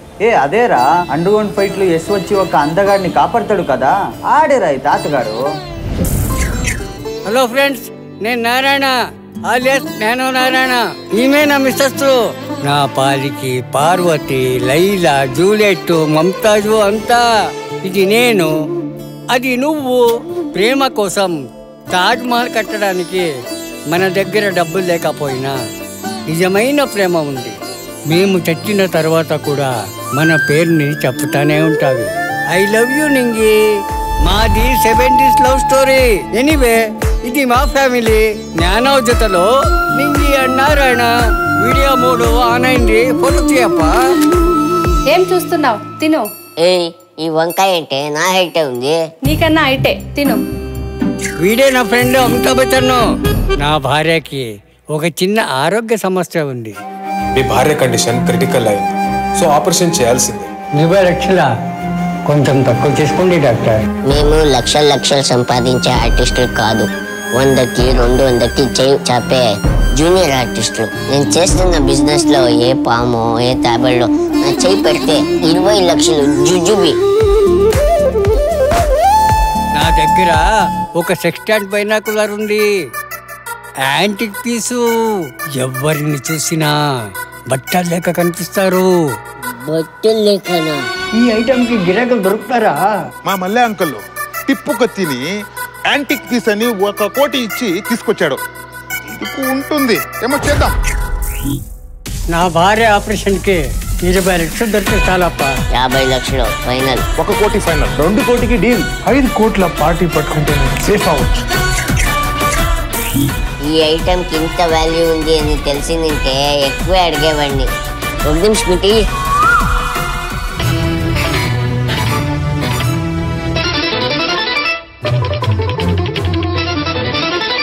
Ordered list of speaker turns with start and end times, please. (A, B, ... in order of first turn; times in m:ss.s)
0:00.2-0:05.4 A
0:07.2-0:17.3 B
0:17.8-0:18.5 B
0:19.3-0:21.4 B
0:21.9-0:23.3 B
0:23.9-0:25.6 B
0:26.3-0:27.6 B
0:28.1-0:33.6 B
0:34.2-0:44.0 B
0:45.1-0:46.2 C
0:46.6-0:49.0 D
0:49.2-0:50.4 C
0:51.4-0:53.0 B
0:53.6-0:56.8 B
0:57.4-1:00.5 E
1:00.8-1:01.5 B
1:02.3-1:03.9 B
1:04.1-1:17.0 D
1:19.7-1:22.6 B
1:23.8-1:26.8 B
1:27.5-1:28.9 B
1:29.5-1:30.9 D
1:31.2-1:32.9 B
1:33.2-1:35.2 F
1:35.9-1:38.4 F
1:39.1-1:40.7 F
1:42.3-1:45.5 B
1:45.7-1:47.1 D
1:47.2-1:47.9 F
1:48.0-1:48.8 A
1:49.0-1:51.4 E
1:53.7-1:57.7 D
1:58.2-1:59.0 D